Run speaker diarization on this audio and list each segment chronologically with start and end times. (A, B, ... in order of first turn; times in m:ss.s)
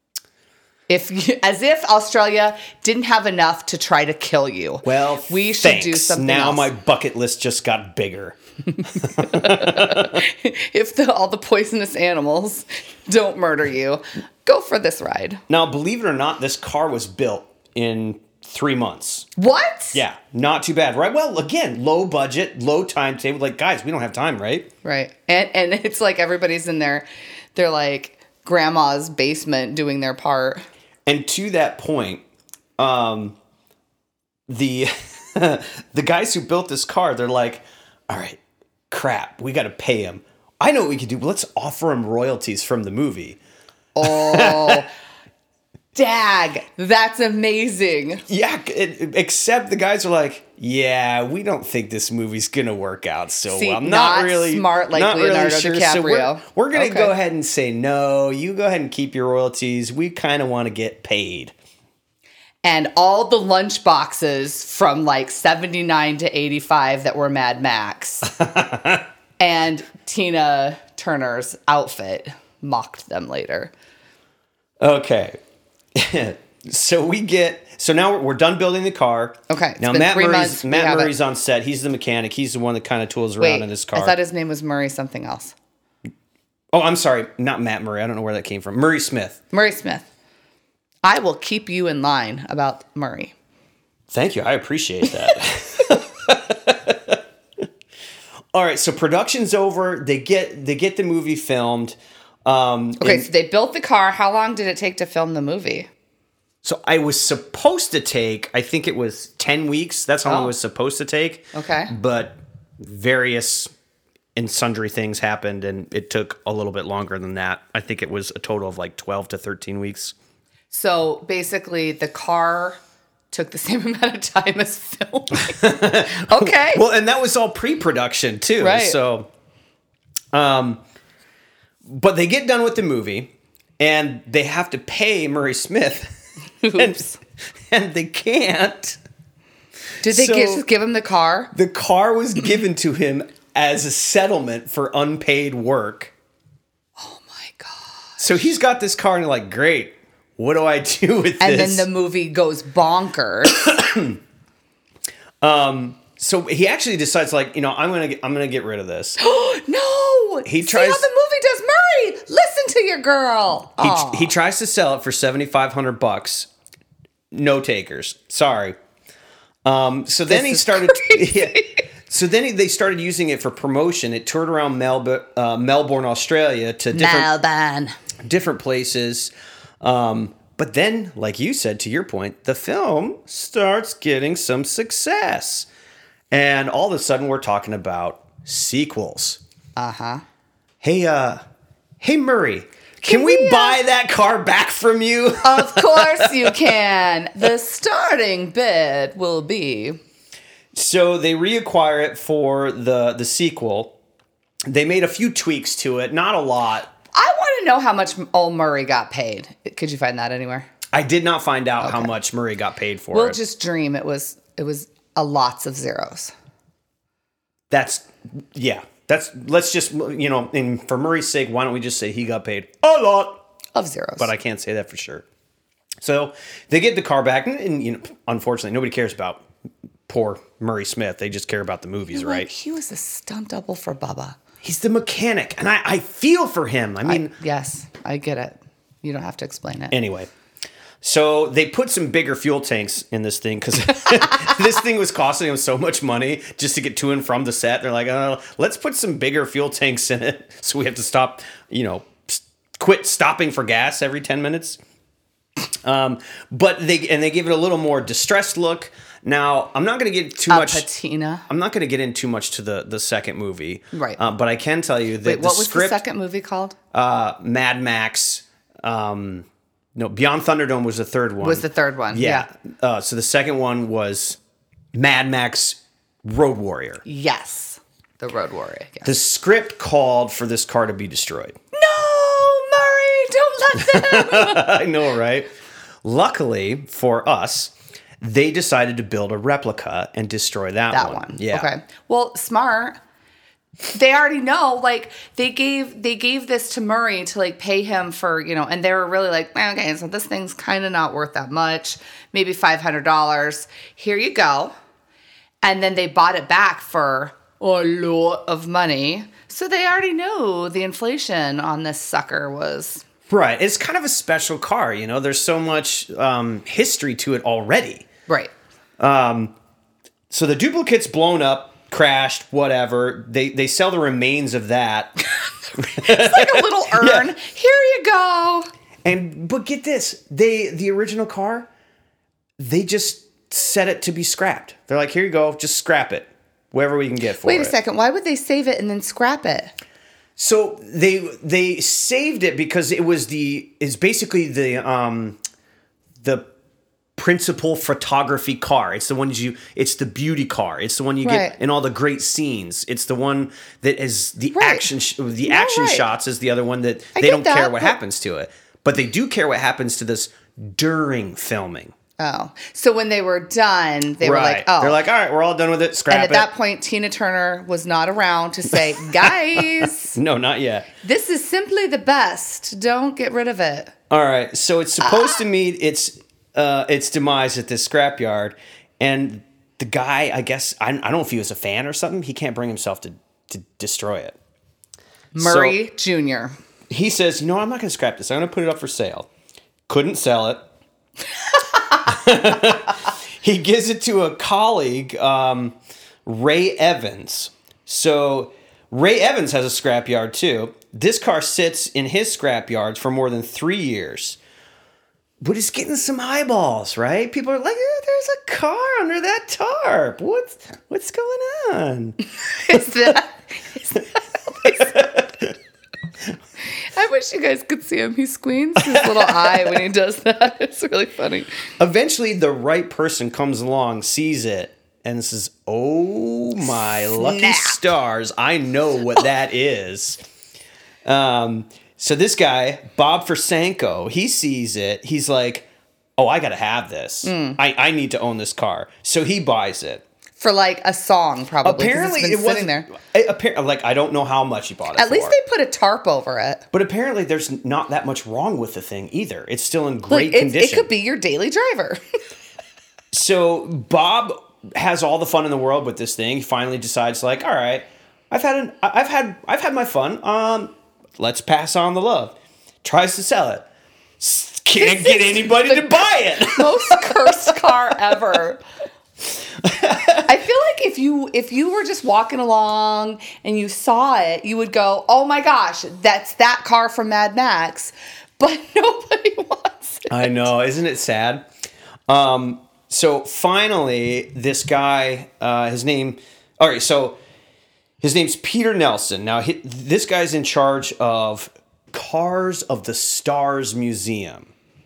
0:00.9-0:06.7 A
0:04.8-0:10.2 B
0:09.2-0:15.4 A
0:15.5-0:19.3 B
0:19.4-0:20.0 A
0:19.9-0:24.7 B
0:24.8-0:30.6 A
0:31.0-0:32.2 B
0:32.8-0:33.4 B
0:34.5-0:43.4 B
0:43.9-0:44.9 A
0:44.0-0:44.8 B
0:45.9-0:48.2 A
0:48.3-1:01.5 B
0:53.5-0:57.1 A
1:02.6-1:08.3 A
1:08.2-1:09.0 B
1:09.4-1:13.7 A
1:14.8-1:15.4 B
1:15.9-1:24.2 B
1:19.5-1:21.1 A
1:23.4-1:25.5 A
1:26.7-1:29.4 B
1:29.5-1:30.1 A
1:31.0-1:33.3 A
1:34.1-1:37.2 B
1:38.5-1:43.3 B
1:43.0-1:45.9 A
1:46.6-1:53.7 B
1:50.2-1:50.5 A
1:51.5-1:51.9 A
1:54.4-2:00.1 B
2:00.7-2:02.8 A
2:03.3-2:06.8 A
2:05.3-2:09.3 B
2:08.6-2:09.0 A
2:10.3-2:10.8 B
2:11.8-2:16.1 B
2:16.6-2:17.2 A
2:16.7-2:17.0 B
2:17.7-2:19.0 B
2:20.0-2:20.6 B
2:20.0-2:21.5 A
2:21.5-2:26.1 B
2:27.0-2:28.2 A
2:28.2-2:31.9 B
2:31.4-2:33.6 A
2:33.5-2:34.2 B
2:35.4-2:39.2 B
2:39.2-2:44.3 A
2:40.4-2:41.1 B
2:43.8-2:46.5 B
2:47.3-2:48.8 B
2:49.6-2:57.3 B
2:50.3-2:51.8 A
2:56.9-2:58.0 A
2:58.2-3:05.7 B
3:06.3-3:09.4 B
3:09.8-3:10.2 A
3:10.8-3:11.4 B
3:12.0-3:16.5 B
3:13.0-3:13.8 A
3:15.4-3:20.0 A
3:20.7-3:23.9 B
3:24.7-3:26.9 B
3:27.1-3:30.7 A
3:30.9-3:33.4 B
3:31.8-3:32.1 A
3:33.1-3:36.3 A
3:37.7-3:43.4 B
3:43.7-3:44.3 A
3:44.2-3:45.2 B
3:46.0-3:49.4 B
3:50.1-3:52.5 B
3:52.1-3:54.4 A
3:54.6-3:57.3 B
3:57.0-3:59.9 A
3:59.9-4:00.3 B
4:01.0-4:14.8 B
4:15.8-4:20.9 B
4:20.5-4:21.4 A
4:21.5-4:26.0 B
4:23.9-4:24.2 A
4:25.2-4:26.8 A
4:26.9-4:34.4 B
4:31.4-4:32.5 A
4:34.9-4:37.0 B
4:37.0-4:39.1 A
4:39.0-4:41.6 B
4:41.7-4:44.8 A
4:43.7-4:45.5 B
4:46.0-4:51.7 B
4:50.9-4:53.0 A
4:53.9-5:04.7 A
5:05.6-5:13.0 A
5:13.3-5:18.1 B
5:19.0-5:19.5 B
5:20.3-5:25.2 B
5:25.8-5:28.7 A
5:25.8-5:27.3 B
5:29.0-5:31.7 B
5:32.6-5:37.7 B
5:37.4-5:39.7 A
5:40.4-5:45.4 B
5:46.2-5:46.5 B
5:47.2-6:01.9 B
5:51.2-5:51.5 A
5:54.5-5:54.9 A
5:55.4-5:56.0 A
5:57.2-5:58.0 A
6:02.2-6:05.0 A
6:04.2-6:06.5 B
6:06.1-6:10.2 A
6:09.2-6:10.9 B
6:11.0-6:13.9 A
6:14.1-6:24.4 B
6:25.3-6:26.5 A
6:25.4-6:25.8 B
6:26.9-6:29.3 B
6:29.9-6:30.6 B
6:32.0-6:44.4 B
6:45.4-6:53.1 B
6:52.5-6:54.9 A
6:54.6-6:55.5 B
6:56.7-7:01.5 A
6:58.8-6:59.8 B
7:01.8-7:10.2 B
7:06.7-7:07.8 A
7:11.0-7:20.0 B
7:17.2-7:17.6 A
7:20.4-7:22.9 A
7:21.6-7:25.4 B
7:25.0-7:26.6 A
7:26.7-7:30.9 B
7:30.1-7:32.0 A
7:33.1-7:43.6 B
7:44.2-7:48.1 B
7:44.8-7:48.6 A
7:49.6-7:50.3 B
7:50.2-8:00.4 A
8:00.1-8:01.4 B
8:02.1-8:07.2 B
8:08.0-8:14.5 B